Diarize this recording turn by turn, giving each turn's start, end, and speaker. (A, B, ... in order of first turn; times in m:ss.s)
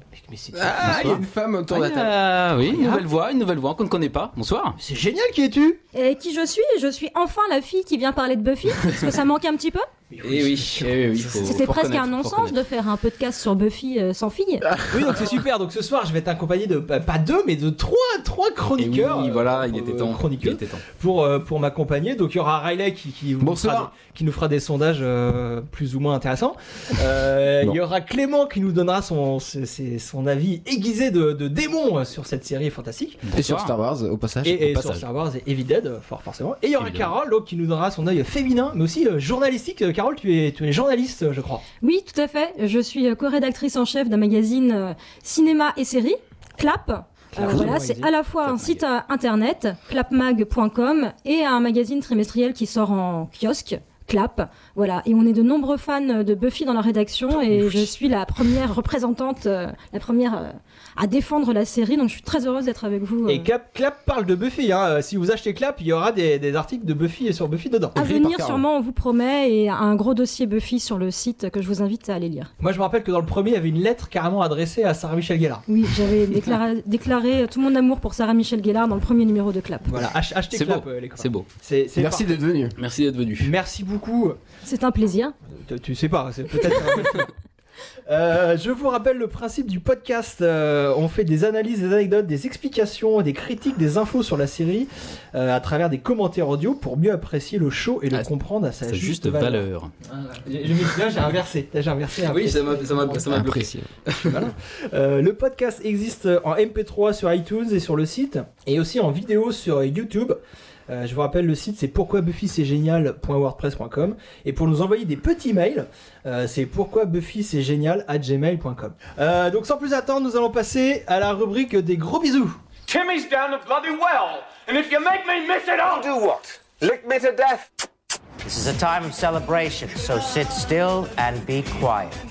0:00.1-0:01.2 A
0:00.5-0:02.2 B
0:00.8-0:04.8 C
0:02.6-0:03.0 A
0:04.8-0:05.8 A
0:05.9-0:09.9 D
0:10.1-0:11.4 A
0:10.2-0:12.5 C
0:11.4-0:14.6 D
0:14.9-0:33.2 A
0:18.8-0:20.8 C
0:23.4-0:23.9 B
0:33.2-0:33.7 C
0:33.3-0:34.8 B
0:34.4-0:41.6 A
0:34.7-0:35.0 C
0:36.8-0:37.1 C
0:41.8-1:03.5 D
0:47.3-0:48.1 A
0:47.4-0:47.7 B
0:48.4-0:48.8 C
1:03.2-1:08.0 A
1:07.9-1:08.6 B
1:08.0-1:12.5 D
1:12.6-1:15.6 A
1:15.7-1:20.0 D
1:19.9-1:22.3 A
1:20.5-1:21.4 C
1:22.0-1:22.7 B
1:22.8-1:23.5 C
1:23.4-1:24.4 A
1:24.6-1:25.3 D
1:25.5-1:27.3 A
1:28.1-1:43.3 A
1:38.8-1:39.9 C
1:42.2-1:44.4 C
1:43.3-1:43.9 B
1:44.2-2:02.6 A
2:02.9-2:07.7 E
2:05.8-2:06.4 F
2:08.4-2:12.2 F